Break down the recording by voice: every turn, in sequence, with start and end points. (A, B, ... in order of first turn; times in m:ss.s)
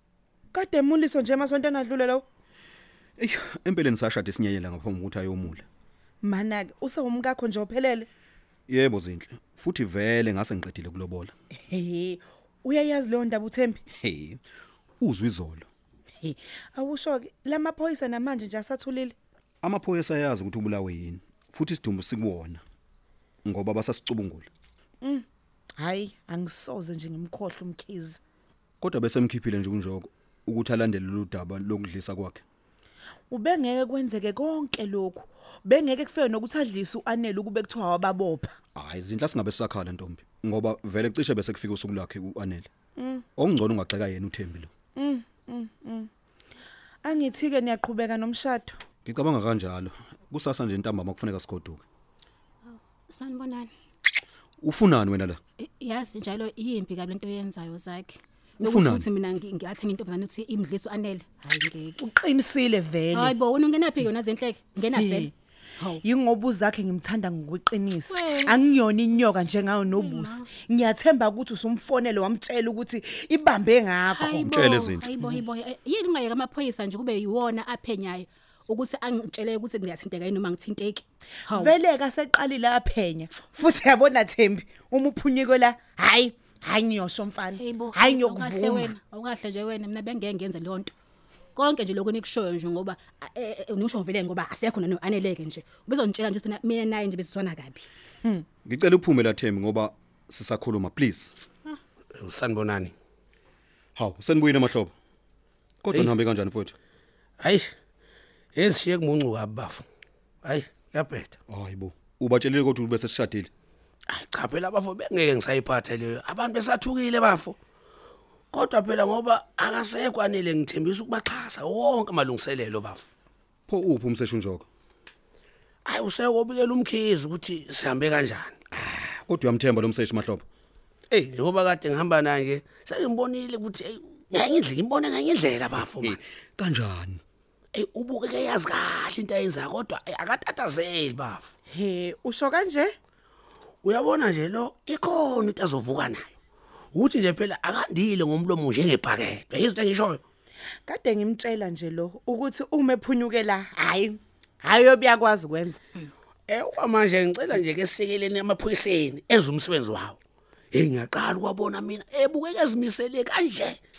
0:00.5-0:02.2 A
0:03.2-0:05.6 B
0:06.2-0:08.1 A
0:08.7-0:11.3 B
0:11.7-0:13.8 A
0:14.0-0:14.4 B
0:15.0-0:15.7 B
0:16.2-0:19.1 A
0:19.6-0:22.6 B
0:23.4-0:24.5 B
0:25.8-0:28.2 A
0:28.8-0:32.4 B
0:33.3-0:38.5 A
0:38.8-0:42.7 B
0:43.0-0:43.2 A
0:43.4-0:44.7 B
0:45.0-0:46.1 A
0:47.0-0:48.8 A
0:49.0-0:51.8 B
0:52.7-0:53.7 C
0:54.6-0:55.4 B
0:55.6-1:02.0 C
0:58.6-0:59.0 B
1:02.0-1:03.3 A
1:03.1-1:06.0 C
1:04.9-1:05.3 A
1:06.0-1:14.5 A
1:08.0-1:08.7 C
1:09.3-1:10.5 C
1:14.1-1:21.8 C
1:14.5-1:15.0 B
1:21.5-1:28.9 A
1:27.5-1:30.9 C
1:31.5-1:37.9 C
1:38.6-1:41.4 B
1:42.1-1:42.9 D
1:44.0-1:44.9 B
1:45.8-1:46.7 B
1:45.9-1:46.2 D
1:47.4-1:47.7 D
1:48.5-1:49.8 D
1:50.4-1:51.4 D
1:51.5-1:53.5 B
1:54.1-1:57.6 D
1:58.5-2:03.1 D
2:03.7-2:04.7 B
2:05.8-2:08.6 D
2:08.9-2:10.4 B
2:11.1-2:16.2 D
2:16.6-2:17.2 B
2:17.7-2:21.5 D
2:21.7-2:22.9 A
2:23.8-2:26.3 D
2:26.9-2:30.2 D
2:30.8-2:35.8 A
2:36.5-2:40.2 D
2:40.7-2:43.8 D